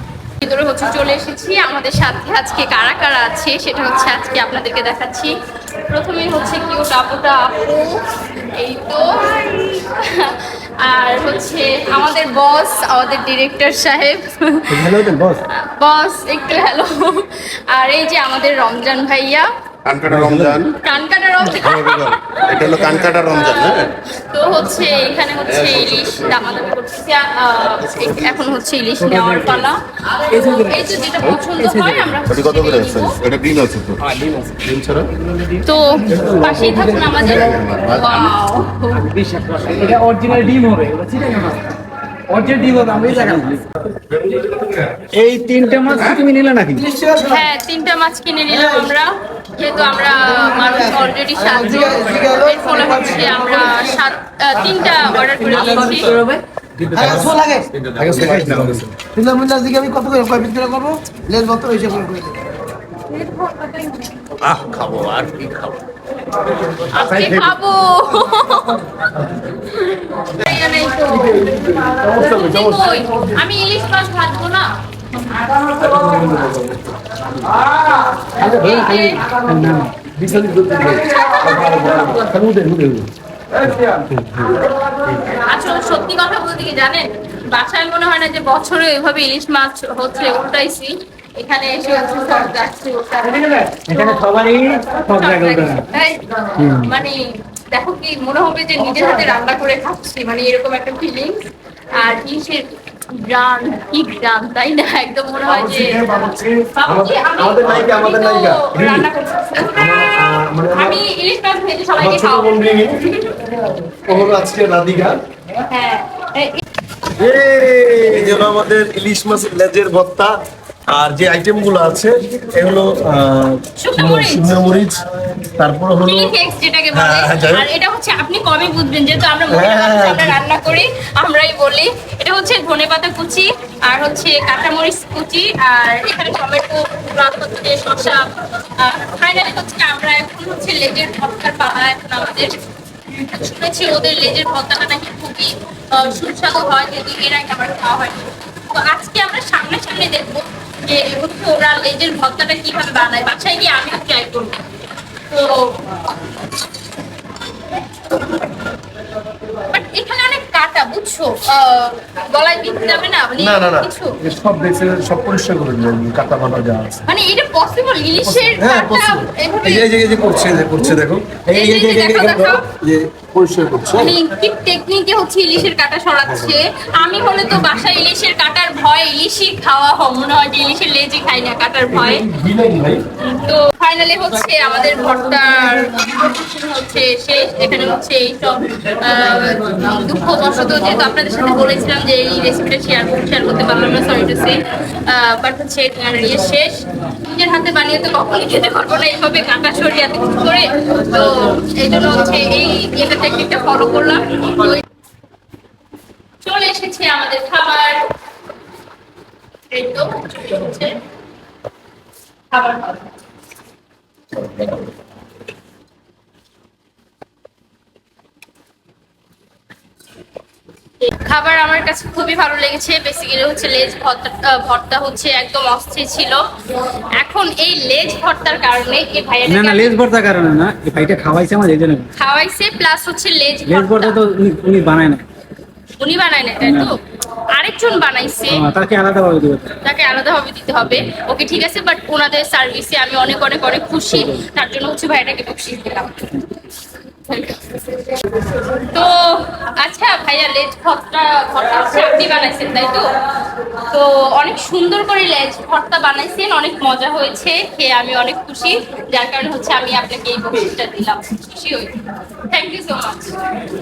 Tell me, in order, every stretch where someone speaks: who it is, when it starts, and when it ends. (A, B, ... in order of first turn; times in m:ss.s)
0:00.4-0:05.3 A
0:05.9-0:19.5 A
0:14.7-0:15.4 B
0:19.8-0:20.7 C
0:20.3-0:20.5 B
0:20.8-0:33.2 A
0:21.6-0:23.8 C
0:29.0-0:29.7 D
0:30.3-0:32.2 D
0:32.3-0:34.0 C
0:34.0-0:34.6 D
0:34.7-0:35.1 C
0:35.6-0:39.1 A
0:36.1-0:36.9 D
0:36.9-0:38.3 C
0:38.9-0:41.8 D
0:42.3-0:43.6 D
0:45.1-0:46.9 D
0:46.8-0:47.4 E
0:47.2-0:56.2 A
0:50.4-0:54.0 E
0:55.5-0:56.4 D
0:56.9-0:57.3 B
0:56.9-0:58.4 E
0:58.0-0:58.9 B
0:58.0-0:58.4 C
0:58.2-0:58.8 D
0:59.0-1:02.4 E
1:03.2-1:04.2 A
1:04.5-1:05.8 C
1:06.9-1:15.4 A
1:11.1-1:13.2 B
1:15.8-1:17.4 B
1:18.4-1:19.0 B
1:18.4-1:19.3 A
1:19.0-1:19.9 D
1:20.1-1:23.1 B
1:21.1-1:21.8 A
1:23.9-1:24.6 B
1:25.2-1:34.3 A
1:33.3-1:35.8 D
1:35.1-1:46.2 A
1:36.6-1:36.9 D
1:45.4-1:51.0 B
1:46.7-1:53.1 A
1:52.0-1:55.2 B
1:55.7-1:56.6 A
1:57.1-2:00.3 B
2:00.9-2:06.4 B
2:03.8-2:04.6 A
2:06.0-2:34.6 A
2:06.9-2:07.7 B
2:09.5-2:10.4 B
2:35.3-2:36.0 A
2:39.7-2:44.2 A
2:43.4-2:47.0 B
2:47.1-2:49.9 A
2:48.2-2:54.2 B
2:51.5-2:52.6 A
2:53.9-3:02.3 A
2:56.3-2:56.6 B
3:01.9-3:03.0 B
3:03.2-3:24.8 A
3:26.4-3:28.0 A
3:29.7-3:31.0 A
3:32.5-3:33.1 A
3:41.0-3:46.4 A
3:47.2-3:50.0 A
3:49.5-3:52.1 D
3:52.2-3:54.2 A
3:53.7-3:55.2 D
3:56.0-3:57.0 A
3:56.6-3:56.9 D
3:57.5-3:58.6 A
3:58.5-3:59.7 D
3:59.8-4:06.3 A
4:04.2-4:04.4 D
4:07.3-4:07.6 A
4:08.8-4:13.2 A
4:13.9-4:22.0 A
4:22.5-4:23.4 A